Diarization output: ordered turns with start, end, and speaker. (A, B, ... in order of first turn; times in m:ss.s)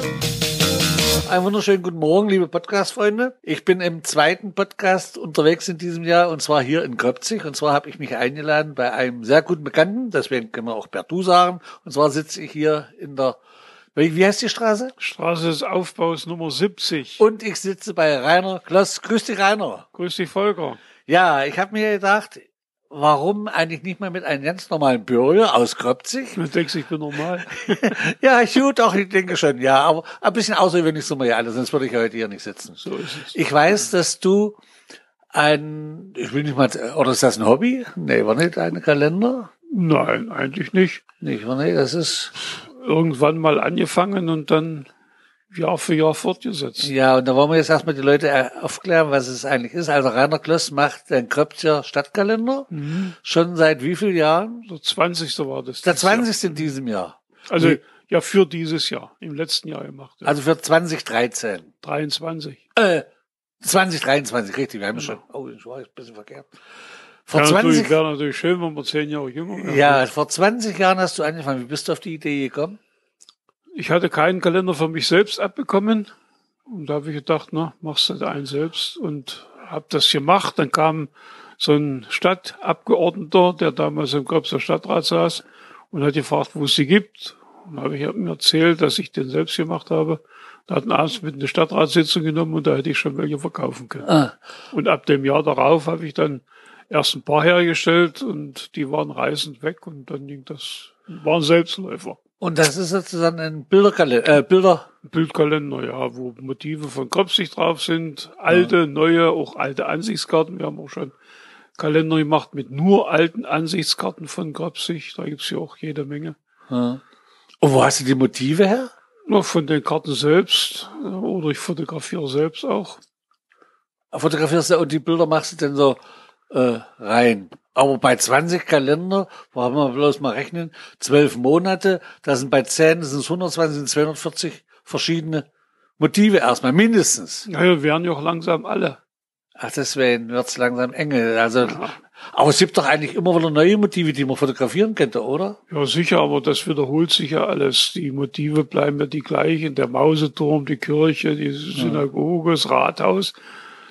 0:01.2-0:13.4 A
0:13.9-0:14.9 A
0:15.0-0:17.2 B
0:17.2-0:19.8 A
0:19.9-0:20.8 B
0:21.1-0:26.4 A
0:26.4-0:27.9 B
0:27.5-0:34.6 A
0:32.8-0:33.3 B
0:35.3-0:39.5 A
0:39.7-0:41.0 B
0:41.2-0:42.3 A
0:42.6-0:44.9 B
0:45.5-0:46.9 B
0:46.8-0:54.7 A
0:52.7-0:53.1 B
0:54.6-0:56.3 B
0:55.8-0:57.8 A
0:57.5-1:00.4 B
1:00.2-1:01.7 A
1:01.8-1:02.6 B
1:02.8-1:03.0 A
1:03.6-1:06.5 A
1:04.9-1:05.2 B
1:07.3-1:08.0 A
1:07.3-1:10.0 B
1:09.6-1:12.8 A
1:13.7-1:16.1 B
1:16.7-1:34.1 B
1:34.0-1:34.3 A
1:34.7-1:42.2 B
1:42.4-1:44.9 A
1:45.0-1:51.1 B
1:51.8-1:56.4 B
1:56.7-1:57.0 A
1:57.6-1:58.9 A
1:59.3-2:03.0 B
2:04.1-2:15.4 A
2:16.0-2:17.5 A
2:17.4-2:19.0 B
2:19.6-2:25.6 A
2:21.6-2:22.0 B
2:25.7-2:33.4 B
2:31.8-2:32.0 A